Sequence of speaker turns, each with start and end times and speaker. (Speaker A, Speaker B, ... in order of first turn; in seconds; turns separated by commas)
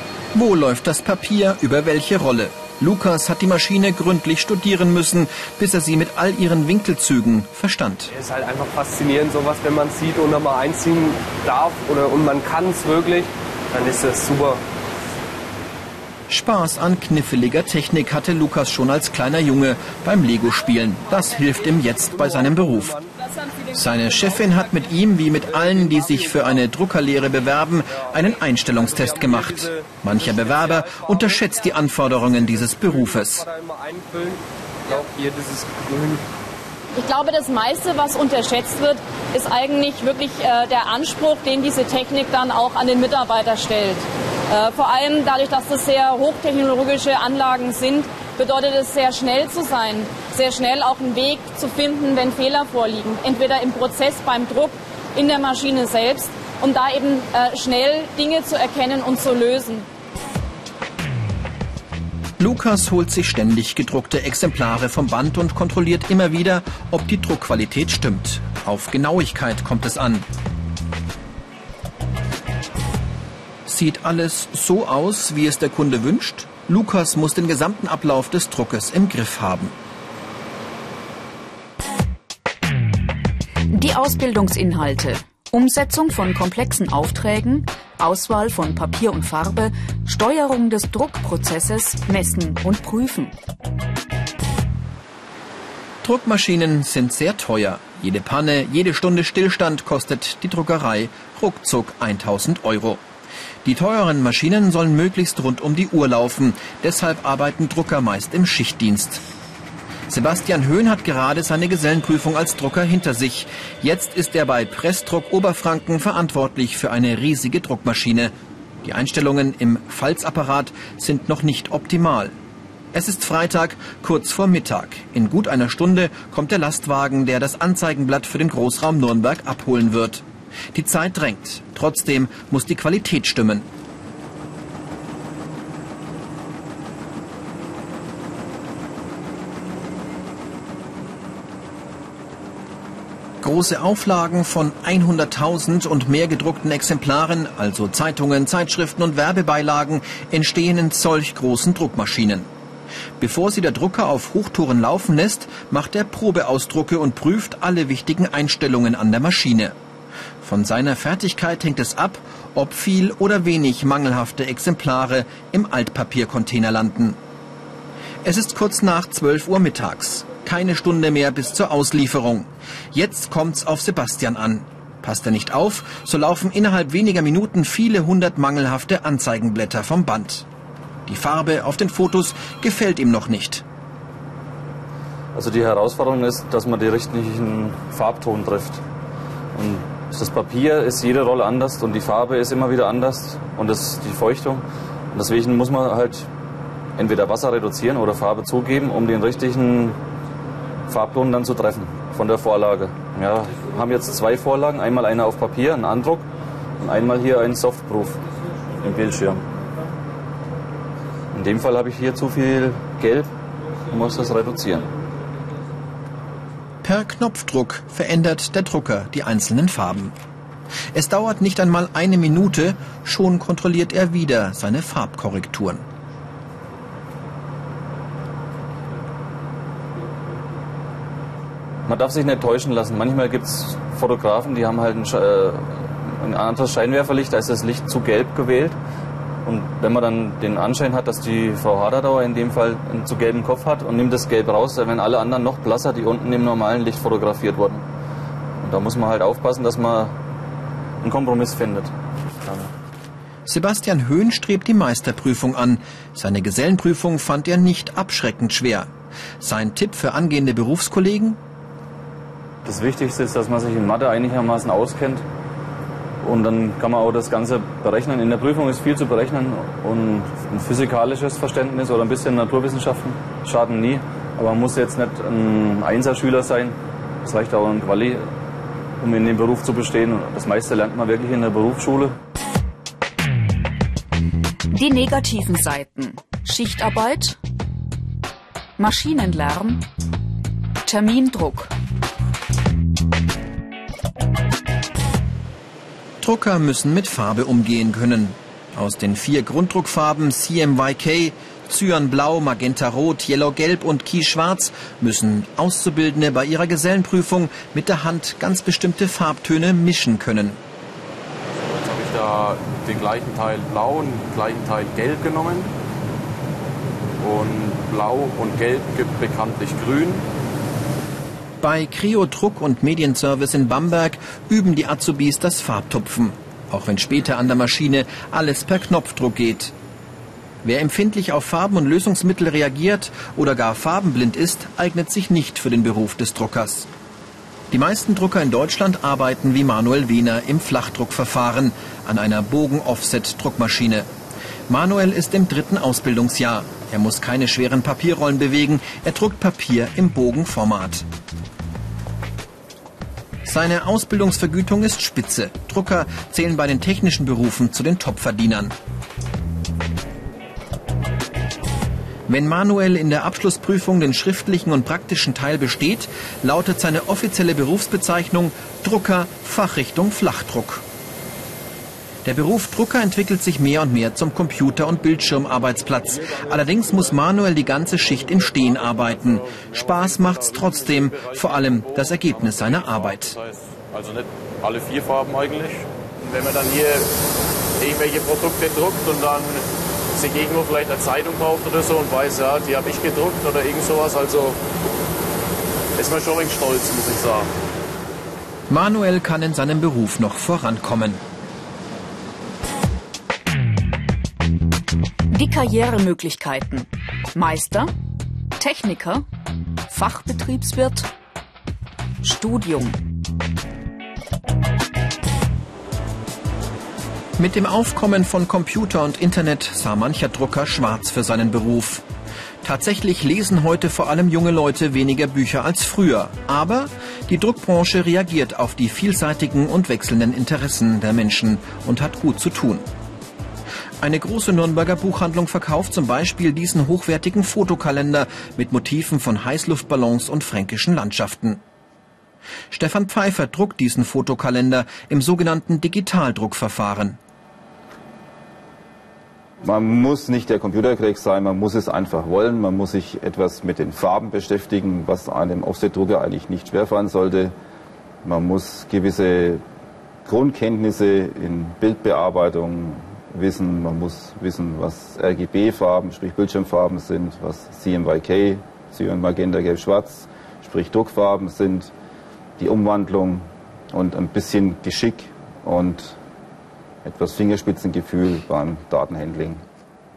Speaker A: 0.3-8.1, Speaker B: 8.1-14.6, Speaker A: 16.3-23.0, Speaker C: 21.2-21.8, Speaker B: 21.8-23.1, Speaker C: 23.2-24.9, Speaker A: 23.7-33.5, Speaker B: 25.4-26.7, Speaker B: 27.9-36.2, Speaker C: 37.0-59.9, Speaker A: 62.4-70.3, Speaker A: 73.7-79.8, Speaker D: 83.7-93.3, Speaker A: 96.0-103.0, Speaker A: 103.6-109.2, Speaker A: 110.1-118.3, Speaker A: 118.8-122.3, Speaker A: 122.9-133.7, Speaker A: 143.4-152.5, Speaker A: 153.2-159.8, Speaker A: 160.4-167.2, Speaker A: 168.2-180.5, Speaker A: 181.1-183.6, Speaker E: 185.3-188.8, Speaker E: 189.6-196.3, Speaker E: 197.0-200.0, Speaker E: 200.9-206.3, Speaker E: 206.8-208.2, Speaker E: 208.8-209.4, Speaker E: 211.3-213.3, Speaker E: 213.9-214.9, Speaker A: 216.8-220.1, Speaker A: 220.9-225.8, Speaker E: 231.9-238.8, Speaker E: 239.4-247.8, Speaker E: 248.6-250.2, Speaker E: 251.0-252.7, Speaker A: 253.5-261.4, Speaker E: 262.6-265.2, Speaker E: 266.2-278.2, Speaker E: 279.0-282.2, Speaker D: 284.7-287.4, Speaker D: 288.8-289.9, Speaker D: 290.8-291.7, Speaker A: 296.2-310.6, Speaker F: 311.6-315.7, Speaker F: 317.2-320.3, Speaker A: 321.6-329.7, Speaker A: 330.6-336.9, Speaker A: 337.7-344.1, Speaker A: 344.7-351.1, Speaker A: 353.4-358.7, Speaker A: 362.3-370.8, Speaker A: 372.2-383.4, Speaker F: 376.3-377.2, Speaker F: 378.1-387.1, Speaker F: 387.8-389.6, Speaker F: 390.1-394.6, Speaker F: 396.0-397.5, Speaker A: 398.7-401.2, Speaker D: 405.3-407.9, Speaker D: 408.6-409.2, Speaker D: 409.9-411.1, Speaker D: 412.2-413.0, Speaker A: 417.4-422.1, Speaker A: 422.6-432.9, Speaker A: 434.0-441.6, Speaker A: 442.7-447.2, Speaker G: 449.6-457.5, Speaker G: 458.2-459.6, Speaker G: 460.3-471.9, Speaker G: 472.6-476.2, Speaker G: 477.1-479.6